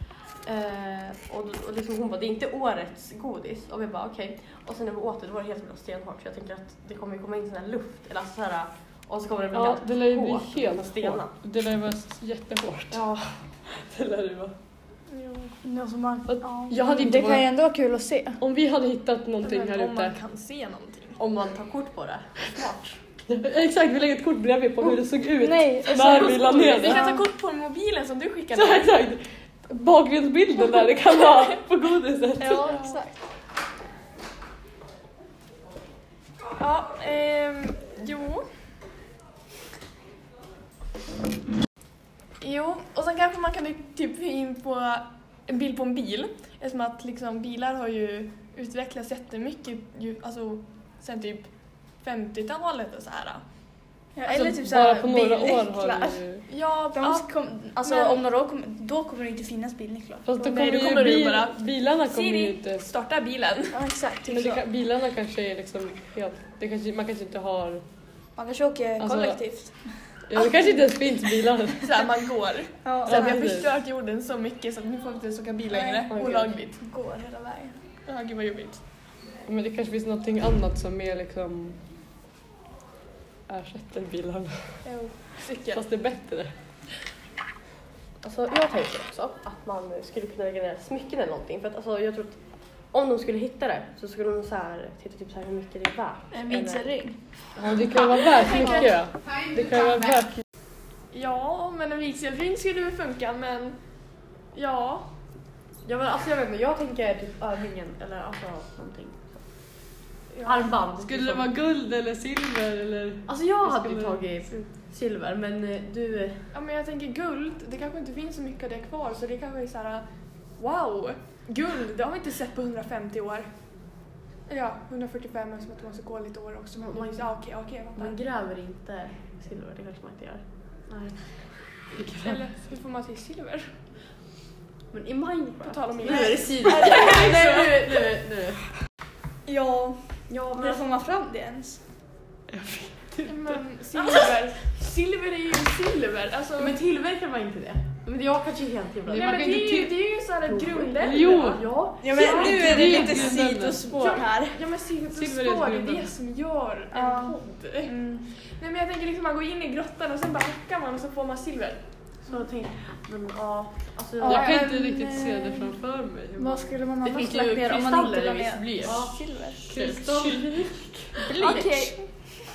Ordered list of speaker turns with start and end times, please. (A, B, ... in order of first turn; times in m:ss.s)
0:00.4-0:11.3 A
0:09.5-0:14.5 B
0:12.9-0:13.4 A
0:15.1-0:15.6 C
0:15.6-0:18.4 D
0:16.3-0:17.6 B
0:18.4-0:20.2 B
0:19.4-0:21.2 C
0:21.2-0:23.0 A
0:23.3-0:27.1 B
0:25.4-0:27.2 D
0:26.0-0:29.0 C
0:28.5-0:32.7 B
0:32.4-0:33.1 D
0:32.5-0:33.0 C
0:36.5-0:38.4 C
0:42.4-0:51.5 C
0:52.0-0:53.4 C
0:54.1-0:56.2 D
0:54.3-0:56.4 B
0:56.5-0:57.3 C
0:56.9-1:00.8 D
0:57.8-0:58.2 C
1:00.2-1:02.9 B
1:00.5-1:03.8 C
1:03.7-1:04.6 D
1:04.2-1:07.8 B
1:08.4-1:10.0 D
1:09.0-1:09.4 B
1:10.2-1:11.9 B
1:10.5-1:10.8 C
1:11.8-1:16.8 C
1:12.8-1:13.5 D
1:13.0-1:13.7 B
1:15.7-1:17.8 D
1:16.1-1:16.4 B
1:18.0-1:18.8 C
1:19.4-1:21.8 B
1:23.5-1:24.8 B
1:24.8-1:25.8 C
1:25.7-1:26.5 B
1:28.2-1:36.9 A
1:36.3-1:37.2 D
1:37.6-1:40.4 B
1:38.3-1:38.6 D
1:38.4-1:38.9 C
1:41.1-1:43.8 C
1:44.5-1:45.1 C
1:45.8-1:49.4 A
1:50.3-1:50.7 C
1:50.4-1:51.5 A
1:51.0-1:54.2 B
1:53.2-1:56.5 A
1:56.5-2:03.5 C
2:04.5-2:08.2 C
2:06.8-2:11.5 A
2:11.9-2:12.4 B
2:12.2-2:13.8 C
2:14.9-2:18.7 A
2:15.6-2:17.3 C
2:16.0-2:17.8 D
2:19.4-2:21.8 D
2:20.3-2:20.8 A
2:22.5-2:23.6 B
2:23.2-2:26.7 C
2:26.6-2:29.6 A
2:29.1-2:30.0 B
2:29.1-2:41.8 C
2:30.4-2:33.1 A
2:31.0-2:34.2 B
2:32.0-2:34.6 D
2:35.1-2:36.1 B
2:36.9-2:38.3 D
2:42.2-2:44.6 A
2:44.2-2:46.8 B
2:44.2-2:45.8 D
2:46.4-2:49.7 D
2:47.0-2:51.9 A
2:49.7-2:50.9 B
2:51.2-2:52.0 D
2:51.4-2:51.9 C